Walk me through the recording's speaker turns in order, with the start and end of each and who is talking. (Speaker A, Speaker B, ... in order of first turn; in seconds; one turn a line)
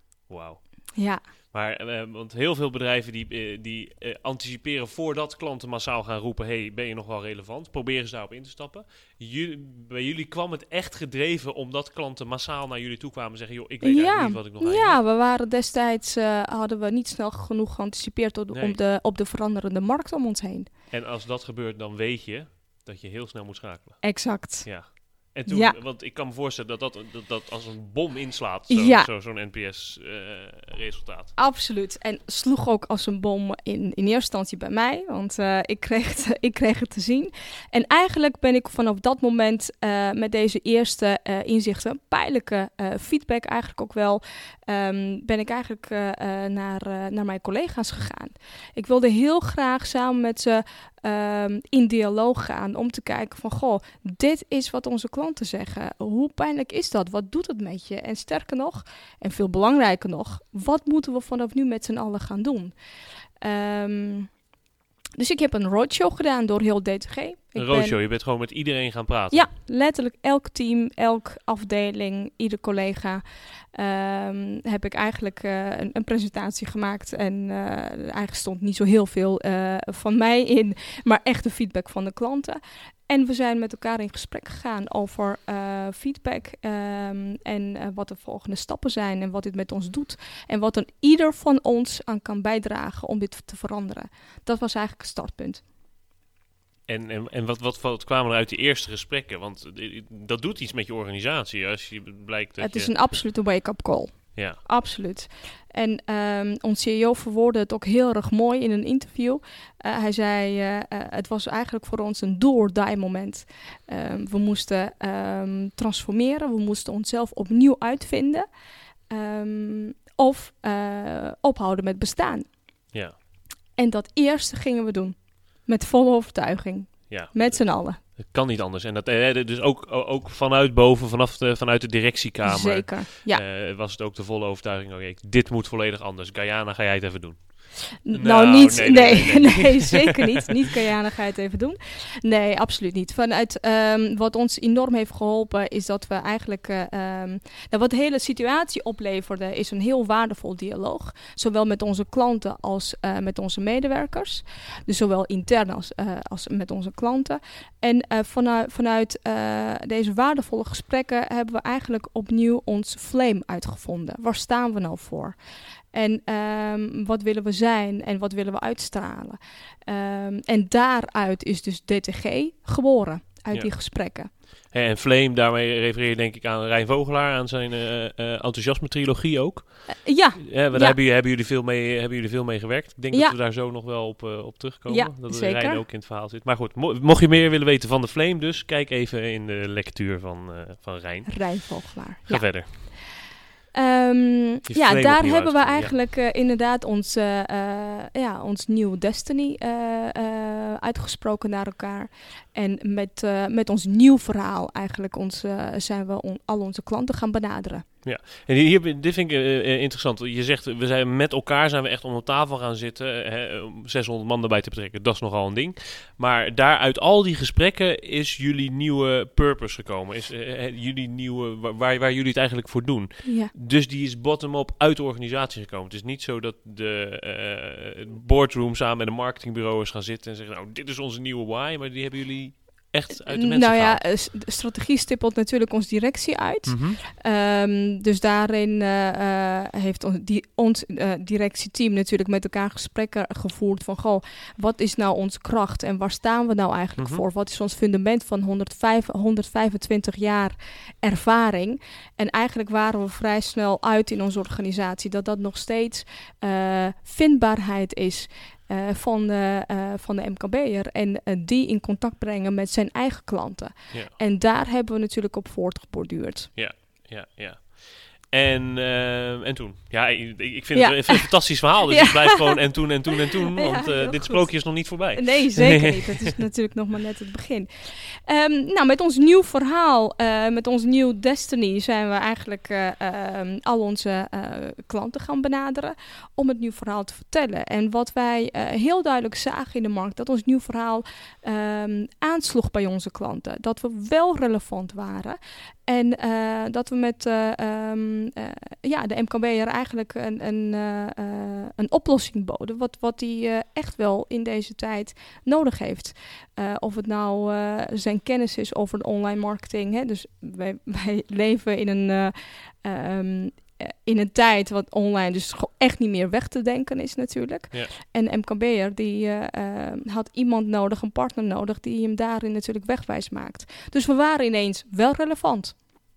Speaker A: 0.3-15.0
Speaker B: 0.9-1.2
Speaker B: 13.8-20.7
Speaker A: 18.5-18.8
Speaker A: 20.9-31.3
Speaker B: 24.0-25.8
Speaker B: 28.7-29.1
Speaker B: 31.4-62.7
Speaker B: 63.4-64.3
Speaker B: 65.2-68.0
Speaker A: 67.5-69.5
Speaker B: 69.3-95.6
Speaker A: 96.9-102.9
Speaker B: 102.6-118.5
Speaker B: 119.1-122.5
Speaker A: 122.9-123.2
Speaker B: 123.8-128.0
Speaker A: 127.1-140.2
Speaker B: 132.4-133.4
Speaker B: 138.0-165.3
Speaker B: 165.9-174.3
Speaker A: 174.3-191.7
Speaker B: 180.0-180.9
Speaker B: 184.9-185.8
Speaker B: 191.3-193.0
Speaker A: 192.3-192.8
Speaker B: 193.7-207.8
Speaker A: 194.7-195.9
Speaker A: 208.0-234.0
Speaker B: 223.2-223.5
Speaker B: 233.3-266.5
Speaker A: 236.7-237.0
Speaker A: 247.0-247.2
Speaker A: 266.6-276.3
Speaker B: 270.7-272.6
Speaker B: 273.5-325.8